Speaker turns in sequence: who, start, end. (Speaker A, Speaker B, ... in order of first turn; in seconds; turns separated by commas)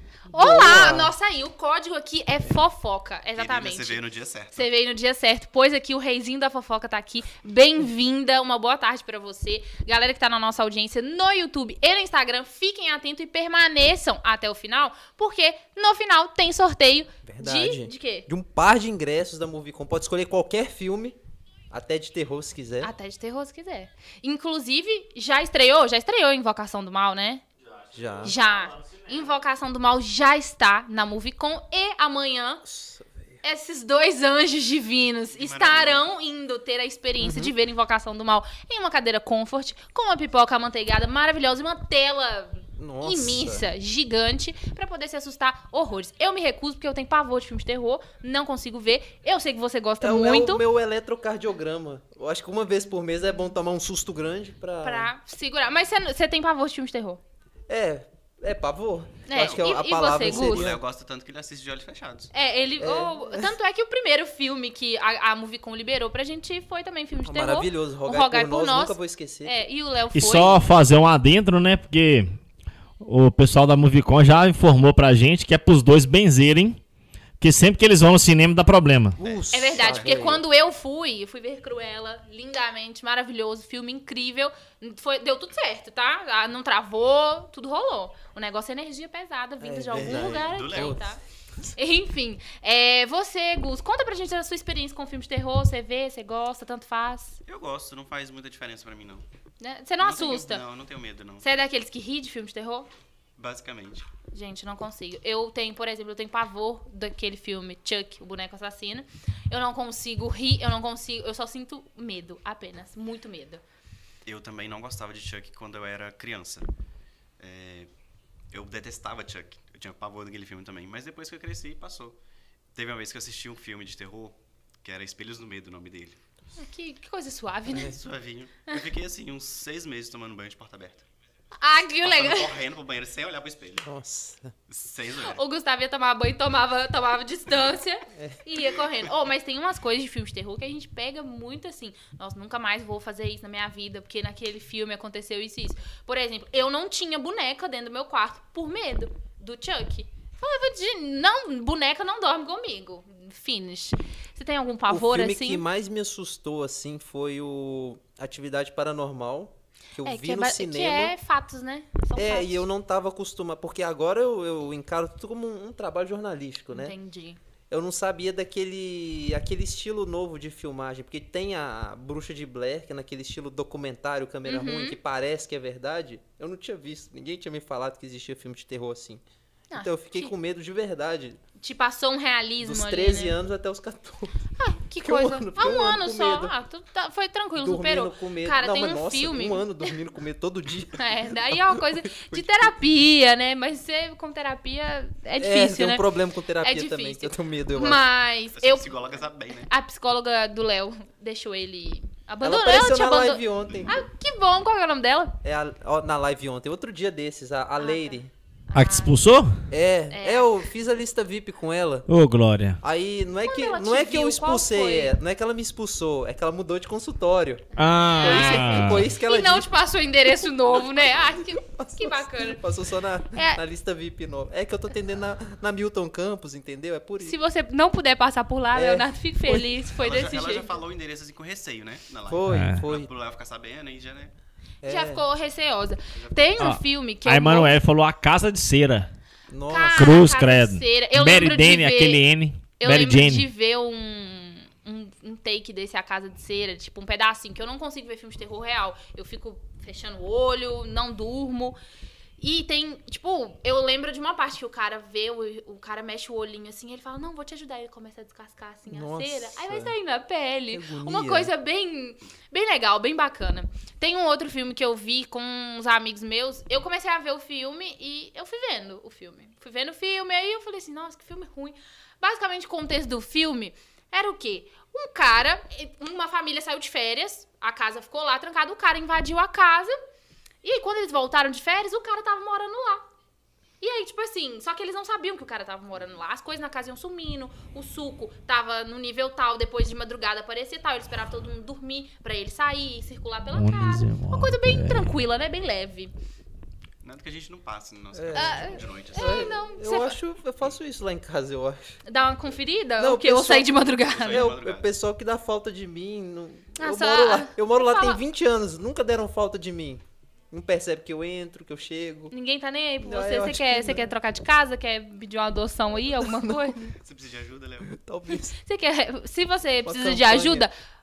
Speaker A: 0.3-4.0, Speaker B: 0.3-1.1, Speaker C: 3.3-4.7, Speaker A: 4.5-18.3, Speaker B: 17.2-21.2, Speaker B: 21.7-22.9, Speaker A: 22.8-27.4, Speaker D: 27.6-29.4, Speaker B: 27.9-28.3, Speaker A: 28.2-32.6, Speaker B: 32.6-33.4, Speaker A: 33.4-50.6, Speaker C: 35.4-36.0, Speaker B: 37.2-37.5, Speaker B: 42.8-43.7, Speaker B: 50.0-55.1, Speaker A: 54.8-57.2, Speaker B: 57.7-60.8, Speaker A: 59.3-60.7, Speaker C: 59.3-62.3, Speaker A: 62.3-70.6, Speaker B: 62.8-63.5, Speaker B: 67.2-69.6, Speaker D: 70.1-72.3, Speaker D: 73.0-76.8, Speaker D: 77.4-79.2, Speaker C: 79.2-80.3, Speaker B: 79.2-80.4, Speaker A: 79.5-91.2, Speaker B: 89.6-91.0, Speaker C: 90.0-91.1, Speaker A: 91.7-97.4, Speaker C: 97.5-99.2, Speaker A: 99.6-100.6, Speaker C: 100.0-101.4, Speaker A: 101.4-102.9, Speaker C: 103.4-104.1, Speaker A: 104.3-113.6, Speaker C: 114.2-116.7, Speaker C: 117.4-117.9, Speaker C: 118.5-122.2, Speaker C: 122.7-126.2, Speaker A: 126.6-128.0, Speaker C: 127.8-131.1, Speaker A: 131.6-132.6, Speaker C: 132.0-133.9, Speaker B: 133.8-134.5, Speaker C: 134.7-135.4, Speaker A: 135.2-155.6, Speaker B: 138.1-138.4, Speaker B: 154.9-161.2, Speaker A: 160.0-162.6, Speaker B: 162.2-166.9, Speaker A: 166.7-167.4, Speaker B: 167.7-179.2, Speaker A: 174.4-175.0, Speaker A: 179.7-180.3, Speaker B: 179.8-181.4, Speaker A: 181.6-183.3, Speaker B: 182.6-184.4, Speaker A: 184.6-189.9, Speaker B: 185.0-186.5, Speaker B: 187.5-192.7, Speaker A: 190.9-196.0, Speaker B: 195.4-198.0, Speaker A: 196.6-199.0, Speaker C: 198.5-199.7, Speaker A: 199.7-205.4, Speaker B: 202.4-204.0, Speaker B: 205.4-208.3, Speaker A: 207.8-209.2, Speaker D: 208.7-209.7, Speaker B: 209.7-212.1, Speaker A: 210.1-210.5, Speaker D: 212.1-212.8, Speaker B: 212.8-219.7, Speaker A: 213.4-215.2, Speaker D: 217.8-219.1, Speaker A: 217.8-222.6, Speaker C: 220.8-221.2, Speaker B: 221.6-227.3, Speaker A: 223.3-223.6, Speaker A: 227.2-230.7, Speaker B: 228.7-229.6, Speaker C: 229.9-234.3, Speaker B: 232.3-233.1, Speaker D: 232.5-232.8, Speaker B: 234.8-235.2, Speaker A: 234.8-237.7, Speaker C: 236.1-236.5, Speaker D: 236.6-239.1, Speaker B: 239.5-240.2, Speaker A: 239.7-242.2, Speaker D: 239.9-243.5, Speaker A: 242.8-251.8, Speaker A: 252.4-279.9, Speaker B: 258.9-259.9, Speaker B: 260.7-261.5, Speaker A: 280.6-283.0, Speaker A: 283.8-296.1, Speaker D: 293.5-295.2, Speaker C: 297.0-299.5, Speaker B: 298.1-302.0, Speaker A: 298.3-300.2, Speaker A: 302.0-304.5, Speaker B: 303.0-303.7, Speaker C: 304.1-304.9, Speaker B: 304.2-312.3, Speaker A: 306.8-308.2, Speaker A: 312.3-316.8, Speaker B: 313.0-314.1, Speaker B: 316.0-316.9, Speaker C: 317.0-317.9, Speaker B: 317.9-318.5, Speaker A: 318.3-320.7, Speaker B: 319.8-320.7